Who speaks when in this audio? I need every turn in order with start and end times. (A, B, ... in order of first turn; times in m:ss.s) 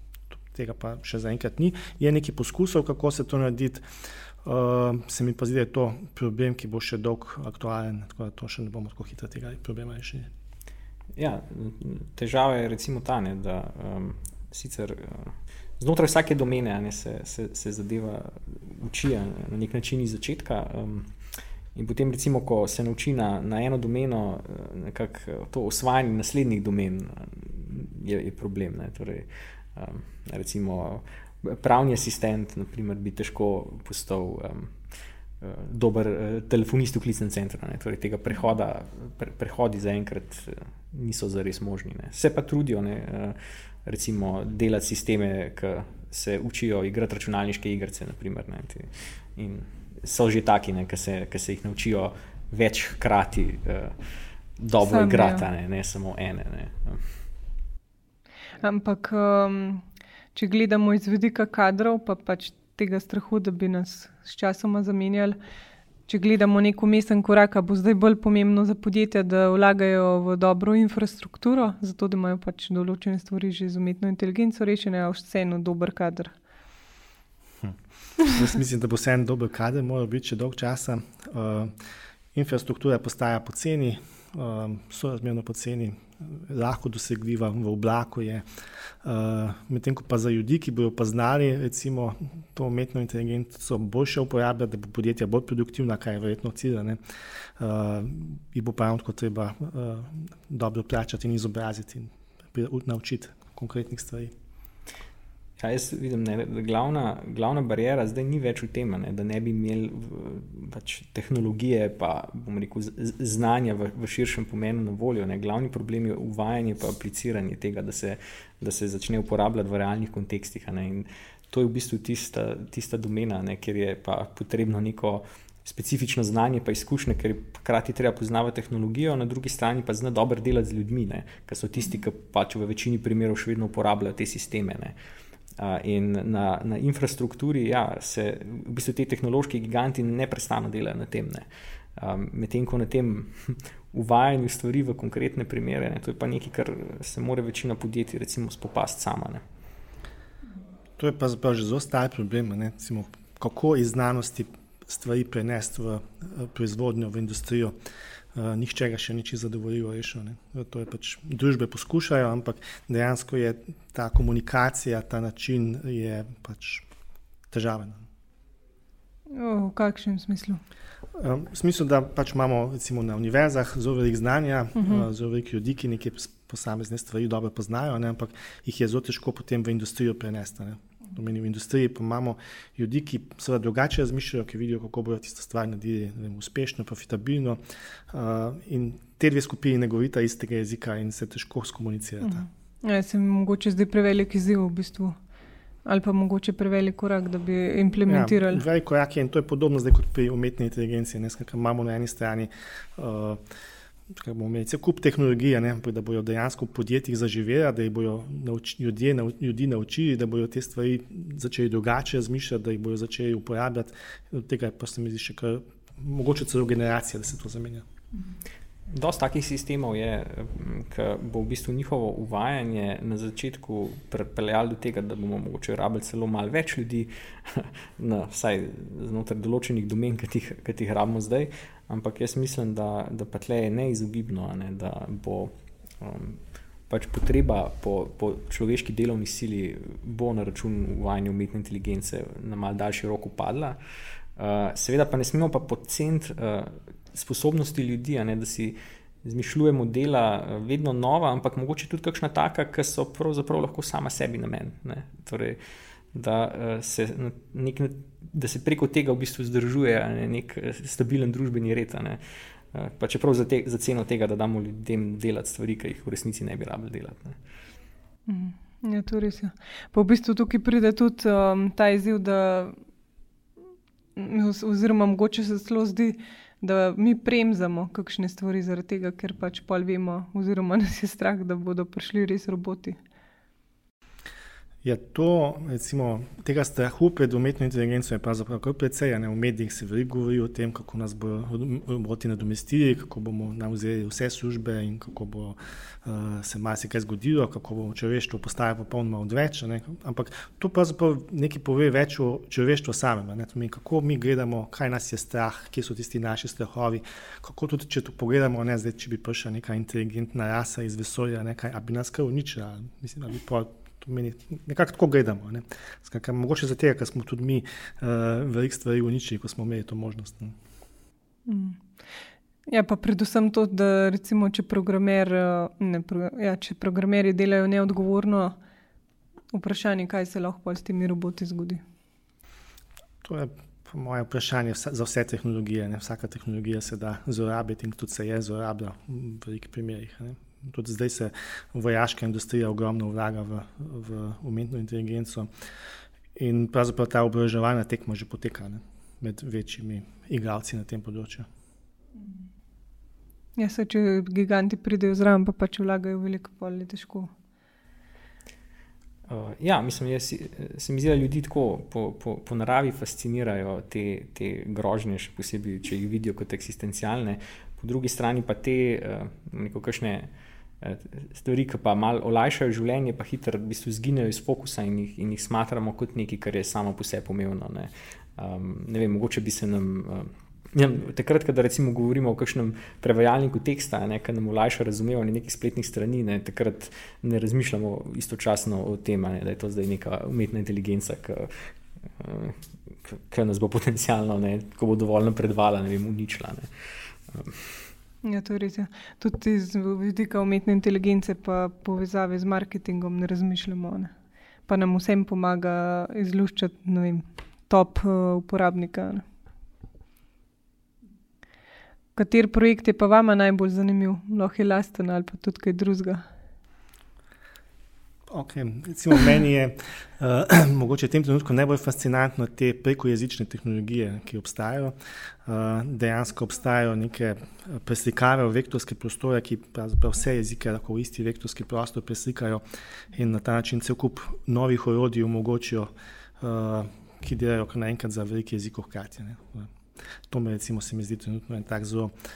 0:00.3-0:03.8 A
0:04.4-0:10.3 A
0:11.2-0:21.1 B
0:21.7-0:34.7 B
0:35.4-0:54.0 B
0:54.6-0:57.1 B
0:54.8-0:55.4 C
0:58.6-1:05.4 C
1:06.1-1:16.3 C
1:17.6-1:21.7 A
1:22.3-1:28.4 A
1:29.0-1:37.0 A
1:37.6-1:44.3 A
1:45.6-2:14.9 B
2:15.6-2:21.4 B
2:22.0-2:29.4 B
2:31.0-2:37.7 A
2:38.3-2:46.8 A
2:47.5-2:48.0 A
2:49.3-2:50.6 C
2:51.2-3:12.4 A
2:54.8-2:55.1 C
3:12.2-3:15.2 C
3:15.8-3:18.6 C
3:18.0-3:23.4 A
3:24.1-3:37.8 A
3:38.9-4:03.8 B
4:04.4-4:15.6 B
4:16.1-4:22.2 B
4:22.7-4:27.4 B
4:28.3-4:32.8 C
4:34.2-4:43.0 C
4:44.8-5:20.6 A
5:21.4-5:21.8 C
5:22.7-5:28.6 C
5:29.5-5:31.8 C
5:33.2-5:45.5 A
5:46.3-5:51.5 A
5:53.6-5:57.3 C
5:59.3-6:10.3 B
6:10.8-6:37.9 B
6:38.2-6:44.1 C
6:44.7-6:49.2 C
6:52.2-6:56.2 C
6:58.3-7:19.7 A
7:20.3-7:22.1 A